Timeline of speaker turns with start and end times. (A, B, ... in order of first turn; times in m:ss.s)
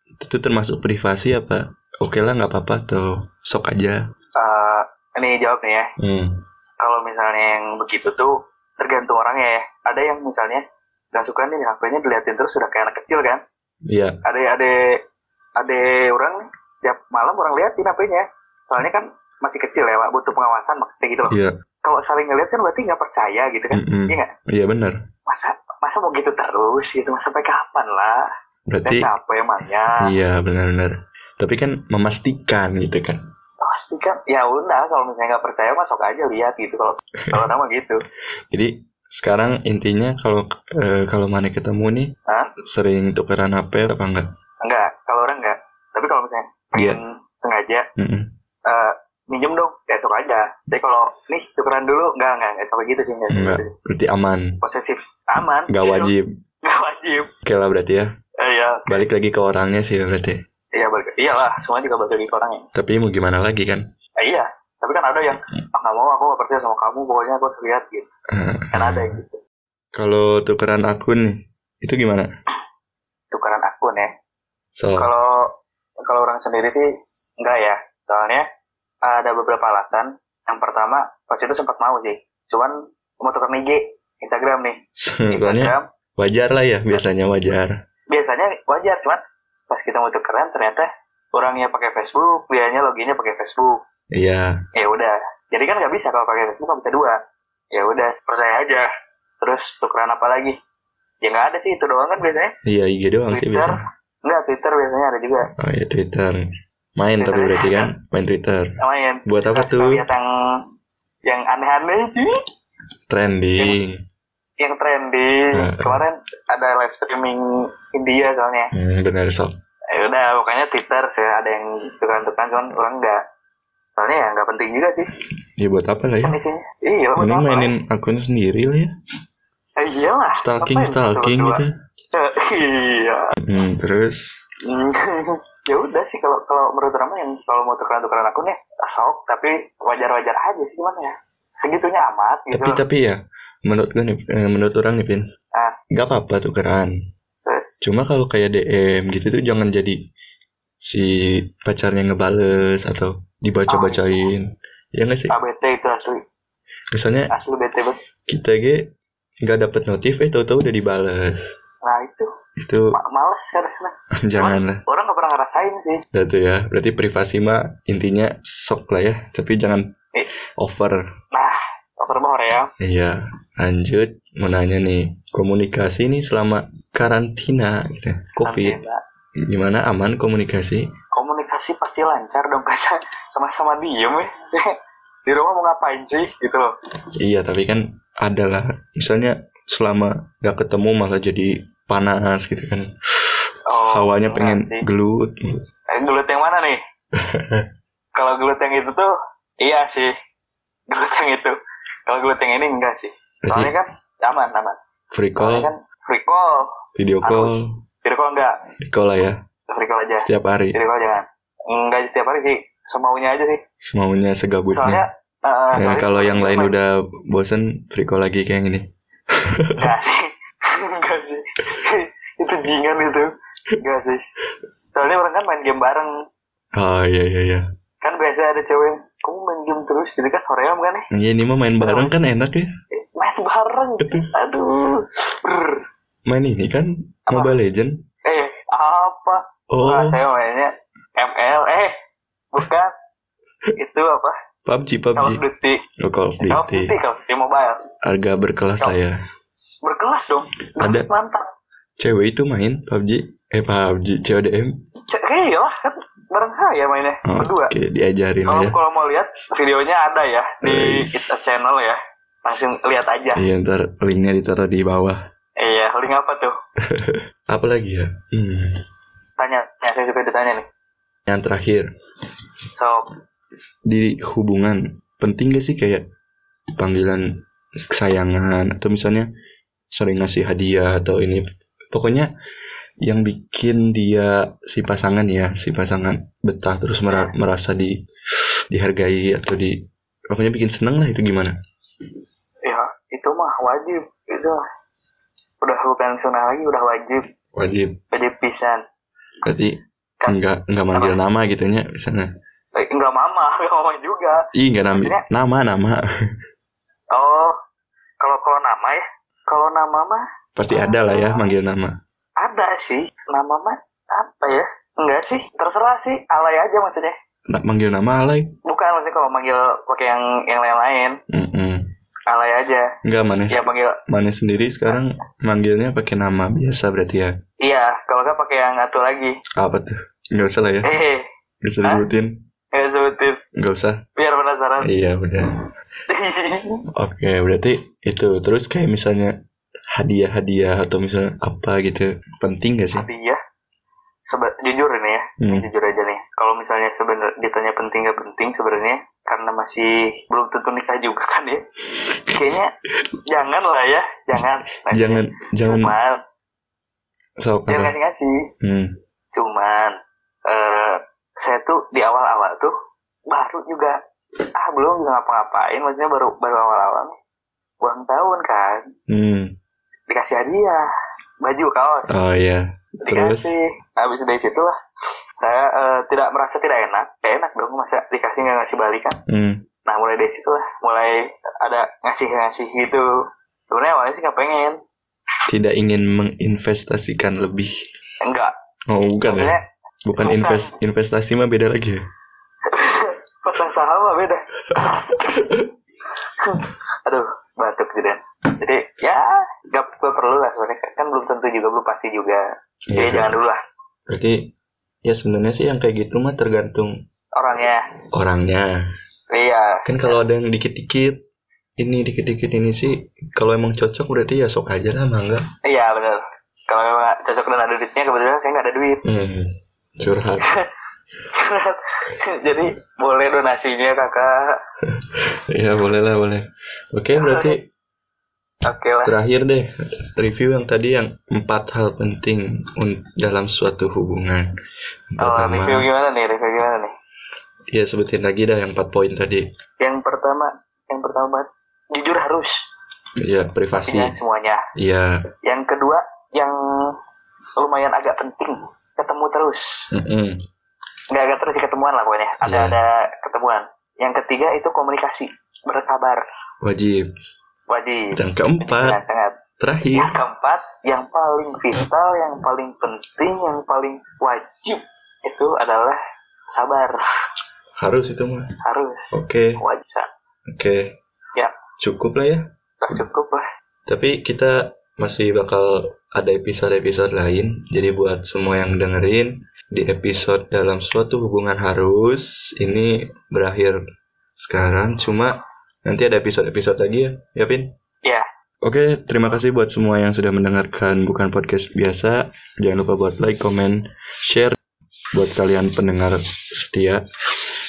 0:00.2-0:04.0 A
0:04.4-0:05.9 B
0:06.0-0:06.4 A
0:06.8-0:13.4 B
0:13.9-0:14.2 A
0:14.2-0:15.0 B
0:15.6-0:24.3 B
0:21.3-0:21.5 A
0:23.7-0:25.0 A
0:25.3-0:28.3 B
0:28.7-0:29.1 A
0:28.8-0:30.1 B
0:30.0-0:33.2 A
0:33.6-0:38.0 B
0:38.5-0:42.1 A
0:42.7-0:44.3 A
0:44.6-0:47.9 B
0:48.0-0:48.3 A
0:48.6-0:53.7 B
0:53.3-0:54.6 A
0:54.6-0:56.1 B
0:55.7-0:56.3 A
0:56.6-0:57.3 B
0:57.4-0:58.1 A
0:58.4-0:59.0 B
0:58.9-1:00.4 A
1:00.7-1:02.6 B
1:02.7-1:03.8 A
1:04.2-1:08.1 B
1:08.3-1:09.2 A
1:08.7-1:09.4 B
1:10.0-1:12.3 A
1:13.3-1:14.1 B
1:14.8-1:15.1 A
1:15.0-1:15.5 B
1:16.0-1:16.9 B
1:17.4-1:18.4 B
1:19.0-1:24.8 B
1:25.0-1:27.8 A
1:25.3-1:25.8 B
1:28.1-1:33.8 B
1:34.1-1:34.5 A
1:34.7-1:37.2 B
1:37.7-1:38.9 B
1:39.4-1:40.6 B
1:41.2-1:42.5 B
1:42.6-1:43.8 A
1:43.3-1:45.5 B
1:45.6-1:46.4 A
1:47.0-1:48.7 A
1:47.2-1:47.9 B
1:48.8-1:50.6 B
1:49.3-1:50.0 A
1:51.2-1:52.4 B
1:53.1-1:54.0 A
1:54.6-1:58.7 B
1:55.5-1:56.0 A
1:58.7-1:59.5 A
1:59.9-2:03.2 B
2:03.9-2:05.1 B
2:05.6-2:06.4 A
2:06.2-2:07.7 B
2:07.2-2:08.9 A
2:09.8-2:11.6 B
2:10.4-2:11.7 A
2:12.1-2:13.3 B
2:13.4-2:14.2 A
2:14.6-2:22.8 B
2:22.5-2:25.2 A
2:25.9-2:26.9 A
2:27.4-2:27.7 B
2:27.8-2:30.0 A
2:30.8-2:35.3 A
2:33.7-2:34.2 B
2:35.3-2:36.2 B
2:36.9-2:37.3 A
2:37.3-2:38.0 B
2:38.3-2:38.9 A
2:39.4-2:41.5 A
2:41.8-2:42.3 B
2:42.6-2:43.0 A
2:42.9-2:46.0 B
2:44.2-2:44.8 A
2:46.1-2:49.9 A
2:50.6-2:51.0 A
2:51.3-2:52.7 B
2:52.8-2:58.8 A
2:58.4-2:59.0 B
2:59.4-3:00.8 A
3:01.1-3:04.7 B
3:05.2-3:06.7 B
3:07.2-3:12.8 A
3:13.7-3:14.9 B
3:13.8-3:15.6 A
3:15.9-3:16.8 B
3:17.2-3:17.7 A
3:18.1-3:20.1 B
3:20.9-3:24.8 B
3:23.5-3:23.7 A
3:25.1-3:25.7 A
3:25.3-3:26.7 B
3:27.0-3:27.8 A
3:27.2-3:28.6 B
3:28.9-3:29.4 A
3:29.7-3:33.6 B
3:30.2-3:30.8 A
3:33.8-3:35.0 A
3:34.7-3:36.8 B
3:35.7-3:39.8 A
3:39.8-3:44.2 B
3:44.9-3:46.1 B
3:46.8-3:47.6 A
3:48.0-3:51.1 B
3:51.1-3:52.7 A
3:51.8-3:52.1 B
3:52.9-3:55.8 B
3:54.0-3:54.3 A
3:56.3-3:58.0 A
3:58.2-4:01.9 B
3:59.7-4:00.2 A
4:02.5-4:02.9 B
4:03.8-4:04.4 B
4:04.6-4:05.4 A
4:05.2-4:05.8 B
4:06.0-4:06.9 A
4:06.4-4:07.8 B
4:08.0-4:09.2 A
4:09.8-4:11.5 B
4:10.8-4:11.1 A
4:12.0-4:14.7 A
4:15.1-4:17.7 B
4:17.2-4:18.8 A
4:18.4-4:23.4 B
4:20.6-4:21.4 A
4:23.3-4:25.2 A
4:25.6-4:26.5 B
4:26.8-4:28.8 A
4:29.4-4:30.7 B
4:31.3-4:31.9 A
4:32.8-4:33.0 B
4:33.9-4:36.0 A
4:36.8-4:37.2 A
4:37.8-4:39.3 A
4:39.9-4:42.3 A
4:43.0-4:47.9 A
4:48.7-4:49.7 A
4:50.3-4:51.5 A
4:52.6-4:54.6 B
4:55.6-4:57.2 B
4:57.6-4:58.0 A
4:58.1-4:58.8 B
4:59.4-5:02.3 A
5:00.9-5:01.2 B
5:02.8-5:05.2 B
5:04.5-5:06.0 A
5:07.1-5:07.6 B
5:08.2-5:11.5 B
5:10.6-5:11.9 A
5:12.4-5:17.2 B
5:17.5-5:18.5 A
5:18.6-5:21.2 B
5:21.3-5:21.8 A
5:22.3-5:22.9 B
5:23.0-5:27.3 A
5:23.5-5:24.0 B
5:27.6-5:29.4 B
5:29.6-5:30.9 A
5:30.8-5:31.3 B
5:31.6-5:32.3 A
5:32.7-5:33.4 B
5:33.6-5:34.0 A
5:34.2-5:34.9 B
5:34.8-5:35.6 A
5:36.1-5:36.8 B
5:37.0-5:39.3 A
5:39.9-5:43.1 A
5:42.9-5:43.4 B
5:44.2-5:51.6 B
5:45.4-5:45.7 A
5:52.3-5:52.7 B
5:53.3-5:56.2 B
5:54.4-5:55.9 A
5:57.4-5:57.9 A
5:57.7-5:58.4 B
5:58.6-5:58.9 A
5:59.3-6:02.7 B
6:03.3-6:04.0 B
6:04.5-6:07.2 B
6:07.8-6:08.9 B
6:09.1-6:09.5 A
6:10.1-6:10.8 B
6:11.4-6:12.1 B
6:12.1-6:13.5 A
6:13.0-6:14.7 B
6:15.4-6:19.2 B
6:19.3-6:19.6 A
6:19.8-6:23.1 B
6:23.7-6:24.8 B
6:25.5-6:27.7 A
6:28.2-6:28.5 B
6:28.9-6:29.5 A
6:29.2-6:29.6 B
6:30.0-6:32.0 A
6:30.2-6:30.7 B
6:32.6-6:35.5 B
6:34.7-6:35.7 A
6:36.4-6:43.6 B
6:42.9-6:43.4 A
6:44.1-6:44.5 A
6:45.0-6:47.0 A
6:47.4-6:47.8 B
6:48.1-6:48.7 A
6:49.3-6:50.2 B
6:49.8-6:51.2 A
6:51.8-6:55.4 A
6:55.6-6:59.0 B
6:59.0-6:59.5 A
7:00.0-7:00.5 A
7:00.4-7:00.7 B
7:01.3-7:04.6 B
7:04.8-7:07.6 A
7:07.1-7:07.6 B
7:08.6-7:09.1 B
7:09.0-7:14.5 A
7:15.1-7:15.9 A
7:15.2-7:16.9 B
7:17.7-7:19.5 A
7:19.8-7:22.6 B
7:23.2-7:24.2 A
7:23.9-7:24.6 B
7:24.8-7:25.2 A
7:25.4-7:27.0 B
7:27.6-7:29.9 B
7:29.9-7:30.4 A
7:31.1-7:36.2 B
7:32.4-7:32.8 A
7:36.6-7:37.1 A
7:37.7-7:39.4 B
7:38.1-7:39.0 A
7:39.6-7:40.2 A
7:39.9-7:46.0 B
7:46.5-7:47.0 B
7:47.8-7:48.5 A
7:48.6-7:50.1 B
7:49.1-7:49.6 A
7:50.5-7:50.9 A
7:51.8-7:52.4 A
7:52.8-7:53.4 B
7:53.9-8:03.8 A
8:04.4-8:07.7 A
8:08.6-8:14.6 A
8:15.1-8:17.0 A